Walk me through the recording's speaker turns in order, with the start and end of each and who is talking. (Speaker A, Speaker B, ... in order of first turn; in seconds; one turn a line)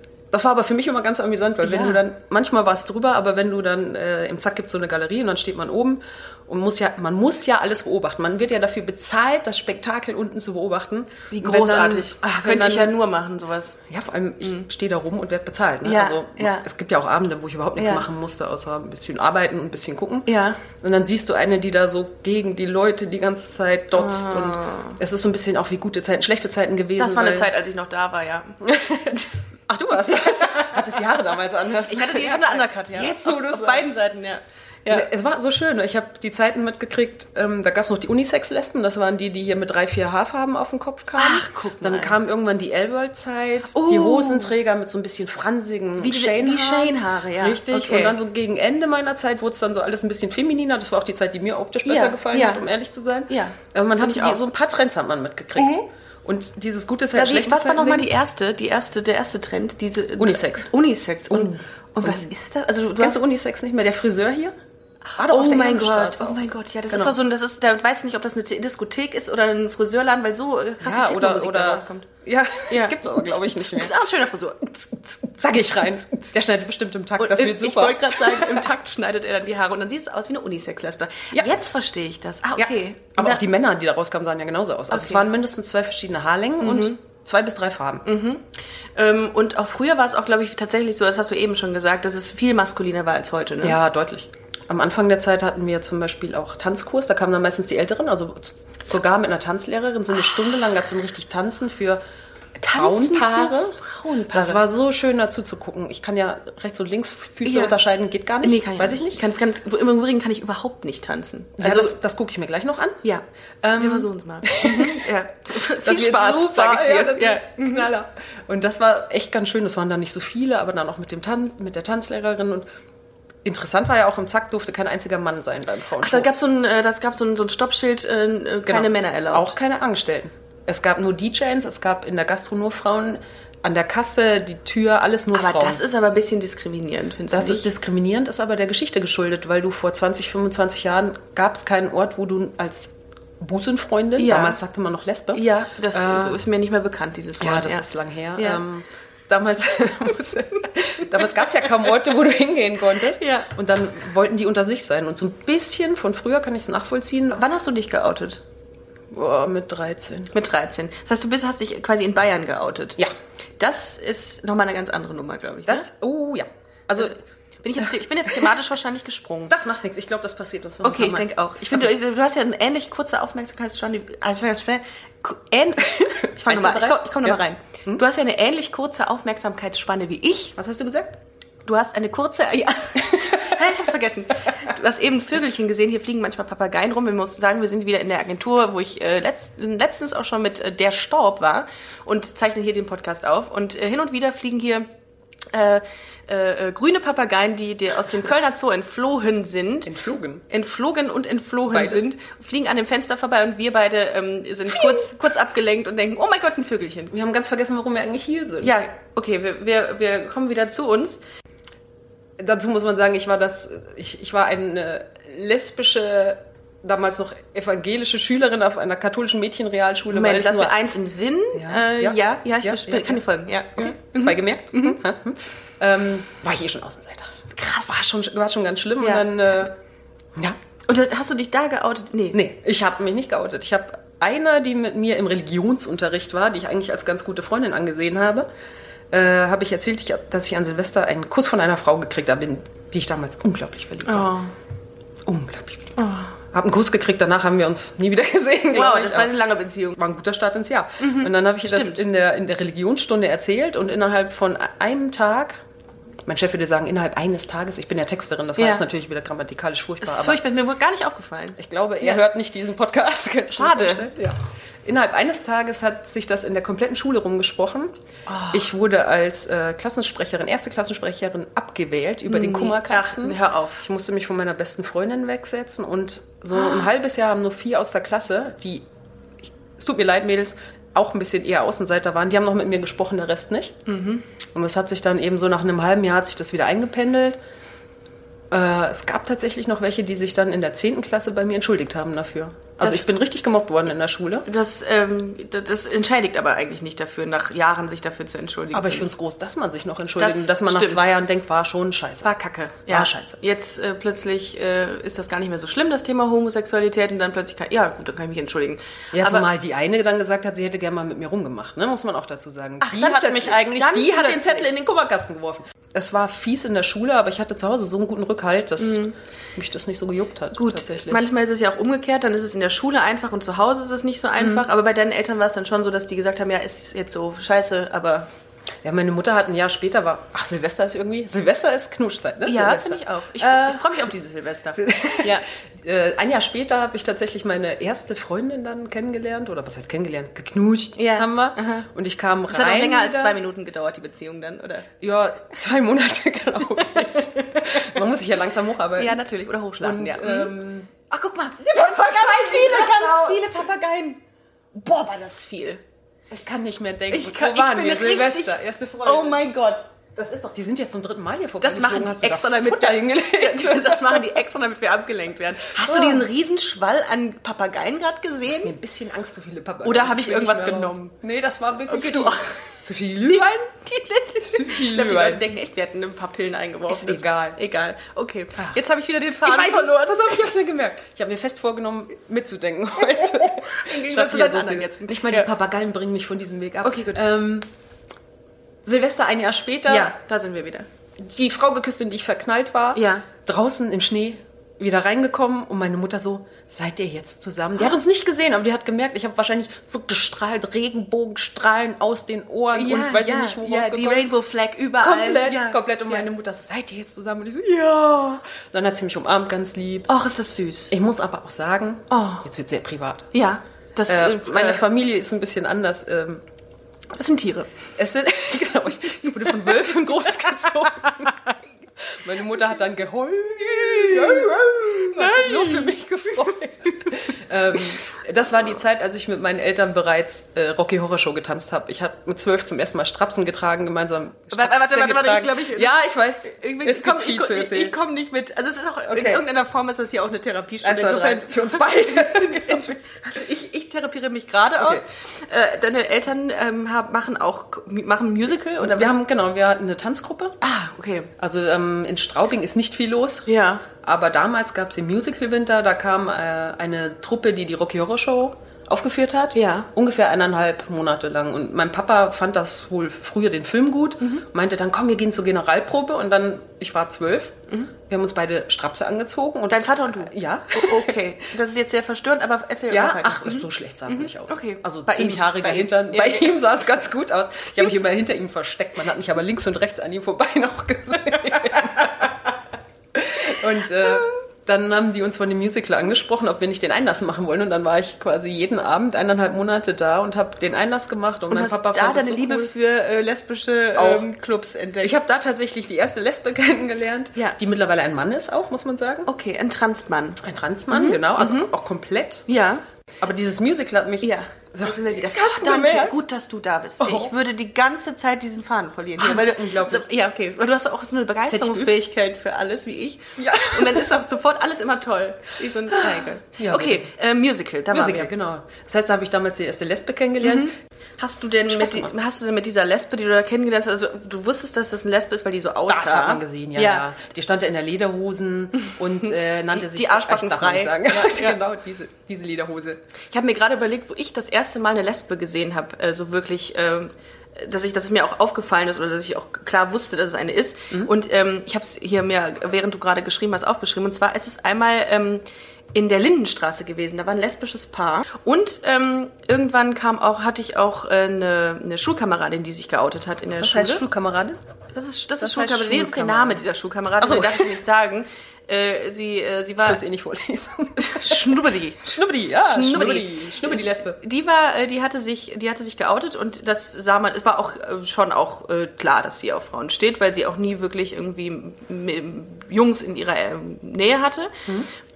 Speaker A: 0.3-12.9
Speaker B: 1.6-2.0
Speaker B: 11.3-13.8
Speaker A: 13.9-27.5
Speaker B: 15.8-16.6
Speaker B: 17.8-18.1
Speaker B: 20.3-20.6
Speaker B: 23.9-25.0
Speaker B: 27.0-29.3
Speaker A: 28.6-33.9
Speaker B: 30.4-30.8
Speaker B: 31.9-35.1
Speaker A: 34.9-58.1
Speaker B: 41.1-42.2
Speaker B: 43.7-44.5
Speaker B: 46.0-48.1
Speaker B: 51.8-52.6
Speaker B: 53.3-54.4
Speaker B: 55.5-55.9
Speaker B: 57.1-63.2
Speaker A: 60.2-60.7
Speaker A: 61.3-62.2
Speaker A: 63.0-64.5
Speaker B: 65.1-72.1
Speaker A: 65.2-67.2
Speaker A: 70.8-73.9
Speaker B: 72.7-75.4
Speaker A: 75.4-78.7
Speaker B: 77.2-83.4
Speaker A: 82.6-88.0
Speaker B: 84.9-85.3
Speaker B: 86.6-87.0
Speaker B: 88.0-93.8
Speaker A: 93.6-102.0
Speaker A: 102.6-103.8
Speaker B: 102.6-104.6
Speaker A: 104.3-109.2
Speaker B: 107.4-107.8
Speaker B: 108.4-112.0
Speaker A: 111.6-113.0
Speaker B: 113.0-117.9
Speaker A: 113.6-115.0
Speaker A: 115.7-122.7
Speaker A: 123.4-126.3
Speaker B: 126.0-129.5
Speaker A: 128.7-135.8
Speaker B: 135.3-137.7
Speaker A: 137.3-146.4
Speaker B: 144.2-144.6
Speaker B: 145.3-147.8
Speaker A: 147.4-157.4
Speaker B: 148.4-148.6
Speaker B: 153.2-153.5
Speaker B: 157.3-158.4
Speaker A: 159.1-160.3
Speaker B: 160.3-163.0
Speaker B: 163.6-165.9
Speaker A: 165.7-167.2
Speaker B: 167.0-169.5
Speaker A: 169.5-171.8
Speaker B: 170.8-180.6
Speaker A: 175.8-178.0
Speaker A: 180.6-181.2
Speaker B: 181.6-194.9
Speaker A: 183.0-183.6
Speaker B: 195.5-199.9
Speaker A: 199.8-200.4
Speaker B: 200.5-207.1
Speaker A: 201.7-202.0
Speaker A: 207.1-208.7
Speaker B: 208.6-211.2
Speaker A: 212.4-220.7
Speaker B: 220.1-225.0
Speaker A: 221.5-223.2
Speaker A: 223.8-227.3
Speaker B: 227.5-228.1
Speaker A: 227.9-229.7
Speaker B: 229.0-229.3
Speaker B: 230.9-232.4
Speaker A: 232.3-238.5
Speaker A: 239.1-244.3
Speaker B: 244.1-244.5
Speaker A: 245.2-245.9
Speaker B: 246.0-246.3
Speaker A: 246.5-249.3
Speaker B: 248.7-250.0
Speaker A: 249.9-255.6
Speaker B: 251.0-252.0
Speaker A: 256.2-260.4
Speaker B: 258.6-258.9
Speaker B: 260.0-262.2
Speaker A: 261.6-267.9
Speaker B: 263.5-264.1
Speaker B: 268.3-268.7
Speaker A: 268.5-278.9
Speaker B: 272.3-273.8
Speaker B: 276.6-276.8
Speaker A: 279.8-283.8
Speaker B: 283.9-284.2
Speaker A: 284.5-287.4
Speaker A: 288.5-294.4
Speaker B: 292.8-293.1
Speaker B: 294.4-299.1
Speaker A: 298.7-302.3
Speaker B: 300.2-301.0
Speaker B: 302.2-309.5
Speaker A: 302.9-303.4
Speaker A: 309.1-319.0
Speaker B: 312.8-314.7
Speaker B: 318.8-319.1
Speaker A: 319.6-321.3
Speaker B: 320.5-328.3
Speaker A: 324.4-324.6
Speaker A: 328.8-334.0
Speaker B: 332.4-335.4
Speaker A: 334.8-343.4
Speaker B: 341.0-341.9
Speaker B: 342.5-344.9
Speaker A: 345.0-349.2
Speaker B: 347.4-347.8
Speaker B: 349.0-350.5
Speaker A: 349.8-350.9
Speaker B: 351.1-354.2
Speaker A: 351.6-353.4
Speaker B: 354.7-355.8
Speaker A: 356.3-359.4
Speaker B: 357.1-359.8
Speaker A: 360.1-364.4
Speaker B: 361.6-368.7
Speaker A: 365.7-366.3
Speaker A: 368.6-373.6
Speaker B: 369.8-371.1
Speaker B: 371.9-380.5
Speaker A: 374.4-375.4
Speaker A: 376.9-377.6
Speaker A: 379.4-387.7
Speaker B: 383.1-385.5
Speaker B: 386.8-387.1
Speaker A: 388.8-390.1
Speaker B: 389.9-390.9
Speaker A: 391.2-404.3
Speaker B: 392.9-393.3
Speaker B: 402.7-406.2
Speaker A: 405.0-410.1
Speaker B: 410.1-410.9
Speaker A: 410.9-413.3
Speaker B: 412.1-412.4
Speaker B: 413.3-414.8
Speaker A: 414.1-416.4
Speaker B: 417.1-417.7
Speaker A: 418.0-421.4
Speaker A: 422.0-437.9
Speaker B: 423.7-426.0
Speaker B: 434.5-435.9
Speaker B: 436.5-449.2
Speaker A: 439.1-439.4
Speaker A: 440.8-442.9
Speaker A: 444.8-445.0
Speaker A: 448.8-450.6
Speaker B: 450.6-451.3
Speaker A: 451.4-471.1
Speaker B: 453.4-453.8
Speaker B: 459.5-459.9
Speaker B: 469.7-476.5
Speaker A: 472.9-482.4
Speaker A: 483.1-492.7
Speaker B: 491.5-495.2
Speaker A: 493.9-494.2
Speaker A: 495.0-499.3
Speaker B: 499.3-501.7
Speaker A: 500.4-502.5
Speaker B: 502.5-502.8
Speaker A: 503.2-506.2
Speaker B: 504.2-518.3
Speaker A: 507.0-507.3
Speaker A: 509.2-510.1
Speaker A: 511.5-511.9
Speaker A: 513.4-514.1
Speaker A: 515.9-517.1
Speaker A: 517.9-520.7
Speaker B: 520.4-527.0
Speaker A: 521.7-522.1
Speaker A: 525.9-533.0
Speaker B: 529.2-531.6
Speaker B: 533.3-545.4
Speaker B: 545.9-554.0
Speaker A: 553.6-554.6
Speaker B: 554.9-560.0
Speaker A: 555.4-556.6
Speaker A: 557.2-557.8
Speaker A: 559.8-564.2
Speaker B: 561.0-562.1
Speaker B: 562.6-574.6